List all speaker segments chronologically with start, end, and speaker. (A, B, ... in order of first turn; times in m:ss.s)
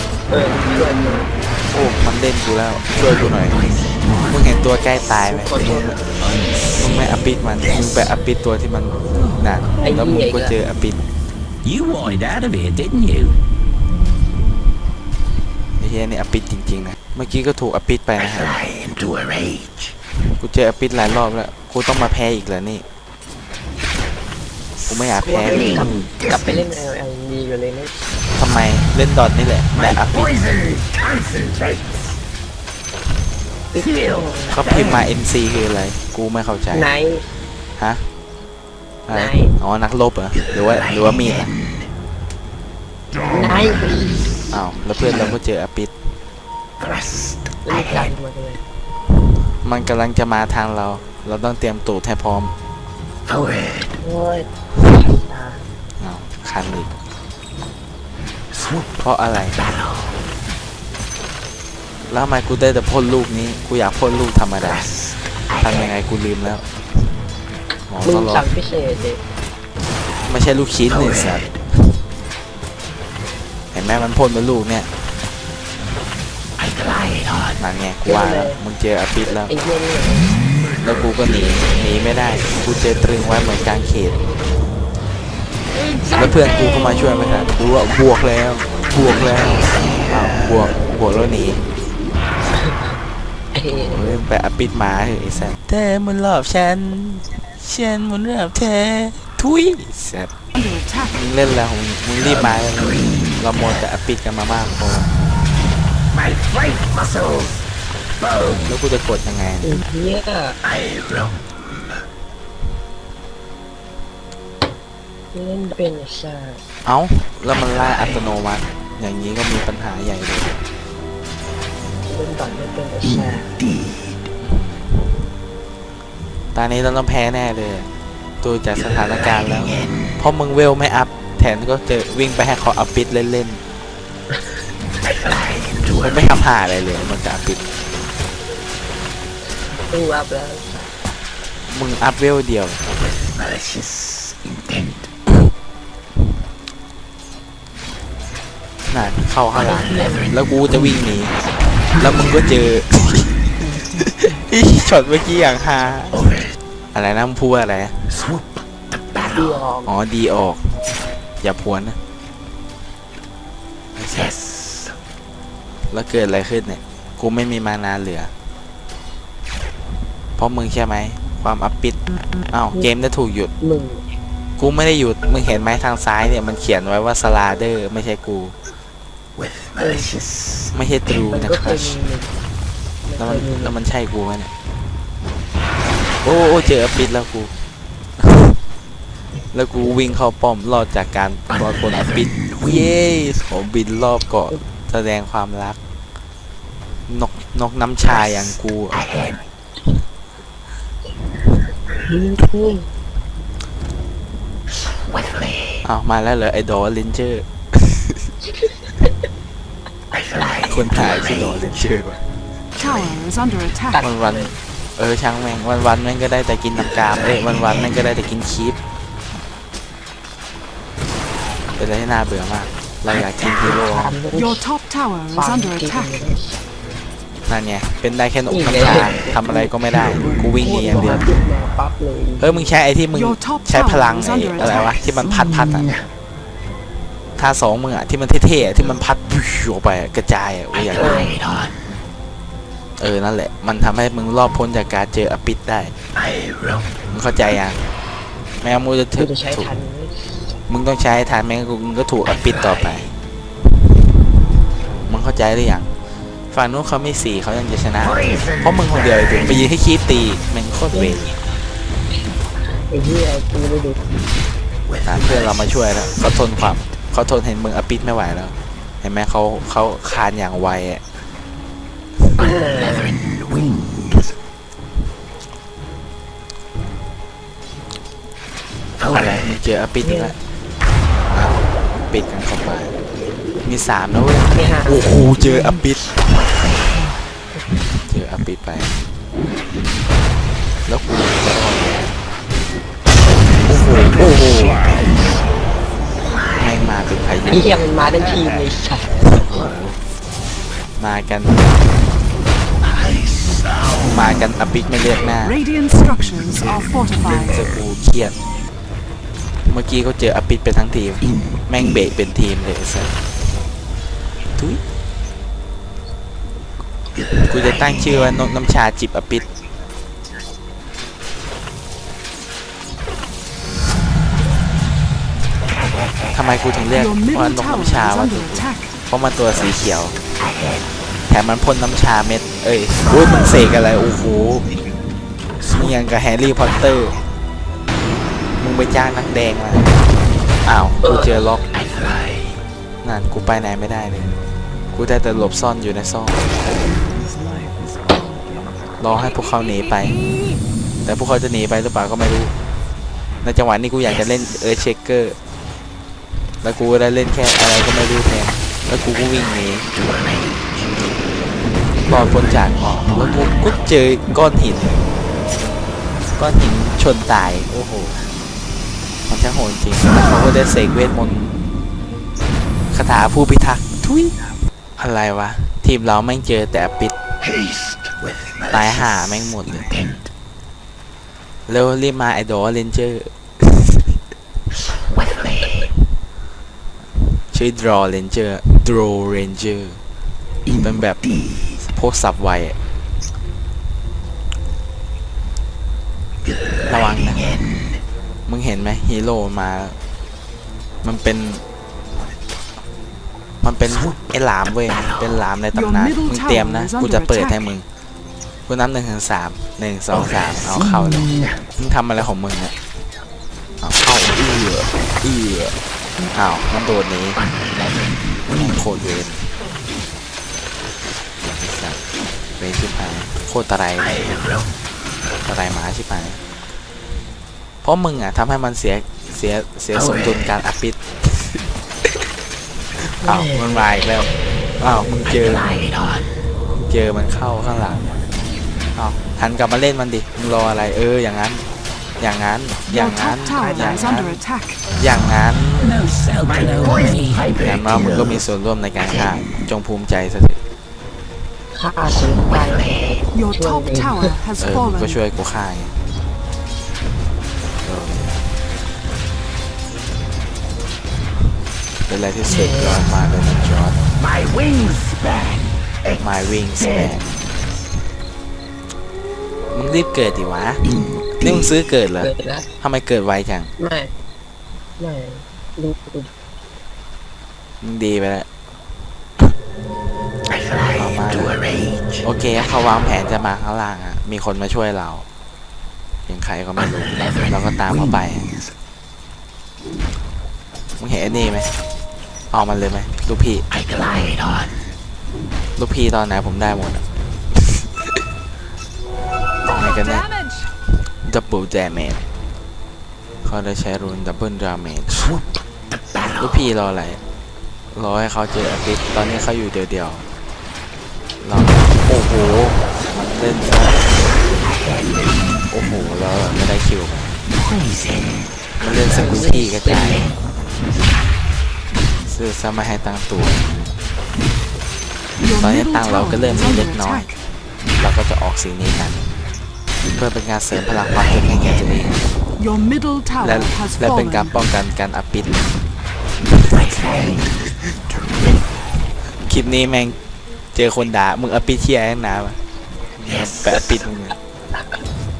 0:00.3-0:01.3 A
0:01.7-0:03.6 B
0:04.3-0:06.0 B
0:05.2-0:06.0 A
0:06.3-0:06.7 C
0:06.8-0:11.0 B
0:09.8-0:10.6 A
0:11.7-0:13.4 C
0:15.8-0:18.6 B
0:20.4-0:22.8 B
0:24.9-0:25.9 B
0:25.2-0:28.0 A
0:25.5-0:25.8 C
0:28.4-0:30.4 B
0:30.0-0:32.2 C
0:33.7-0:34.6 A
0:34.5-0:36.9 B
0:36.7-0:37.3 A
0:37.8-0:38.0 B
0:39.1-0:41.5 B
0:39.1-0:39.6 A
0:43.3-0:44.2 A
0:44.5-0:45.9 B
0:47.6-0:48.6 A
0:49.6-0:52.5 B
0:54.0-0:55.6 A
0:56.0-0:56.9 B
0:59.0-0:59.7 B
1:02.1-1:05.0 B
1:05.6-1:06.6 B
1:07.9-1:08.5 B
1:08.0-1:09.2 A
1:10.2-1:12.0 B
1:13.7-1:14.9 B
1:17.6-1:19.5 B
1:18.1-1:18.6 A
1:19.4-1:20.3 A
1:20.8-1:24.2 B
1:26.1-1:31.6 B
1:32.5-1:33.0 A
1:33.5-1:34.2 A
1:33.7-1:40.3 B
1:40.6-1:41.2 D
1:41.1-1:45.2 B
1:46.1-1:47.6 C
1:48.2-1:48.7 C
1:48.6-1:49.8 B
1:49.6-1:50.6 A
1:50.8-1:51.4 C
1:55.3-1:56.6 A
1:56.8-2:00.6 B
2:02.1-2:03.5 A
2:04.4-2:05.3 B
2:06.5-2:07.9 B
2:08.4-2:13.6 B
2:16.0-2:17.6 B
2:19.7-2:20.6 A
2:21.7-2:22.9 B
2:28.9-2:31.4 B
2:29.5-2:30.4 A
2:32.0-2:36.4 B
2:36.9-2:38.2 B
2:39.3-2:39.9 A
2:39.9-2:40.7 B
2:41.4-2:42.0 B
2:44.0-2:44.3 B
2:45.9-2:48.3 B
2:50.4-2:52.0 B
2:52.5-2:53.5 B
2:53.6-2:54.2 A
2:54.6-2:58.6 B
2:59.8-3:00.2 A
3:00.7-3:02.0 B
3:01.3-3:02.3 A
3:03.1-3:03.8 A
3:03.2-3:04.5 B
3:06.2-3:07.5 B
3:08.2-3:08.6 B
3:09.5-3:15.8 B
3:17.1-3:19.1 B
3:22.0-3:22.9 A
3:25.8-3:28.3 B
3:30.7-3:32.2 B
3:32.8-3:34.1 D
3:34.0-3:34.6 A
3:34.0-3:38.8 B
3:41.8-3:44.2 B
3:43.6-3:44.6 A
3:44.3-3:46.2 D
3:45.4-3:46.6 A
3:47.5-3:51.3 B
3:48.5-3:52.7 A
3:52.4-3:55.9 B
3:53.1-3:55.0 D
3:57.4-4:01.3 B
4:01.0-4:01.4 A
4:03.0-4:05.9 B
4:07.1-4:07.9 B
4:08.6-4:09.7 B
4:09.2-4:10.5 A
4:10.7-4:13.1 B
4:15.1-4:15.9 B
4:16.5-4:21.4 B
4:22.9-4:24.0 A
4:25.0-4:31.0 B
4:32.4-4:33.2 A
4:39.1-4:40.4 B
4:40.0-4:40.4 A
4:41.3-4:43.0 B
4:43.6-4:46.2 B
4:44.5-4:45.4 A
4:48.1-4:49.0 B
4:50.9-4:52.1 B
4:53.7-4:54.9 B
4:56.6-4:57.8 B
4:57.5-4:59.4 A
4:59.2-5:00.0 B
5:01.0-5:01.7 B
5:03.1-5:03.7 C
5:04.0-5:05.6 B
5:05.3-5:07.7 D
5:07.2-5:08.4 B
5:09.7-5:13.1 B
5:17.3-5:19.5 B
5:26.3-5:30.2 B
5:26.9-5:28.9 D
5:31.3-5:34.7 B
5:35.7-5:37.2 B
5:38.6-5:40.0 B
5:40.6-5:41.7 B
5:41.0-5:41.4 A
5:41.9-5:42.2 C
5:43.0-5:44.3 B
5:44.9-5:46.4 B
5:47.5-5:48.4 C
5:49.0-5:50.2 B
5:51.0-5:52.5 B
5:53.4-5:55.4 B
5:56.6-5:59.9 B
6:02.1-6:05.1 B
6:06.4-6:08.2 B
6:09.3-6:11.7 B
6:12.9-6:14.4 B
6:15.0-6:17.2 B
6:18.7-6:19.9 B
6:21.7-6:24.2 B
6:27.2-6:30.0 B
6:30.8-6:31.2 B
6:31.8-6:32.8 B
6:36.8-6:37.5 B
6:38.5-6:40.0 B
6:41.0-6:41.6 B
6:43.6-6:47.9 B
6:45.7-6:47.7 D
6:48.7-6:52.7 B
6:53.8-6:55.8 B
6:56.3-6:57.4 B
6:58.5-6:59.5 B
7:01.4-7:02.0 B
7:02.6-7:04.4 B
7:05.4-7:06.4 B
7:07.8-7:11.7 B
7:13.0-7:15.7 B
7:13.2-7:13.8 A
7:16.8-7:18.1 B
7:19.0-7:21.7 B
7:22.2-7:24.4 B
7:22.9-7:24.8 D
7:25.0-7:26.1 B
7:25.8-7:27.7 C
7:26.6-7:27.2 A
7:27.5-7:30.6 B
7:31.8-7:34.3 A
7:33.3-7:35.2 D
7:34.6-7:36.0 B
7:37.8-7:38.3 B
7:42.1-7:44.2 B
7:42.5-7:43.1 A
7:44.2-7:46.1 C
7:46.2-7:47.4 B
7:49.7-7:53.7 B
7:52.2-7:52.7 A
7:53.8-7:54.1 A
7:55.0-7:56.3 A
7:57.8-7:58.5 B
8:00.9-8:01.6 B
8:02.2-8:05.3 B
8:06.3-8:08.5 B
8:11.0-8:11.7 B
8:12.5-8:13.7 B
8:15.8-8:17.0 B
8:17.6-8:17.9 B
8:19.7-8:20.3 B
8:19.7-8:20.6 D
8:21.2-8:22.2 B
8:23.4-8:25.4 B
8:26.4-8:27.2 B
8:27.9-8:30.3 B
8:31.4-8:34.2 B
8:35.7-8:37.4 B
8:37.7-8:38.0 C
8:38.8-8:40.3 B
8:39.1-8:40.3 A
8:42.2-8:43.9 B
8:45.4-8:47.4 D
8:45.6-8:47.3 B
8:48.0-8:49.3 B
8:50.1-8:52.2 B
8:52.6-8:54.6 D
8:53.4-8:55.8 B
8:56.4-8:57.8 B
8:59.3-9:00.2 B
9:00.7-9:02.6 B
9:03.2-9:04.4 B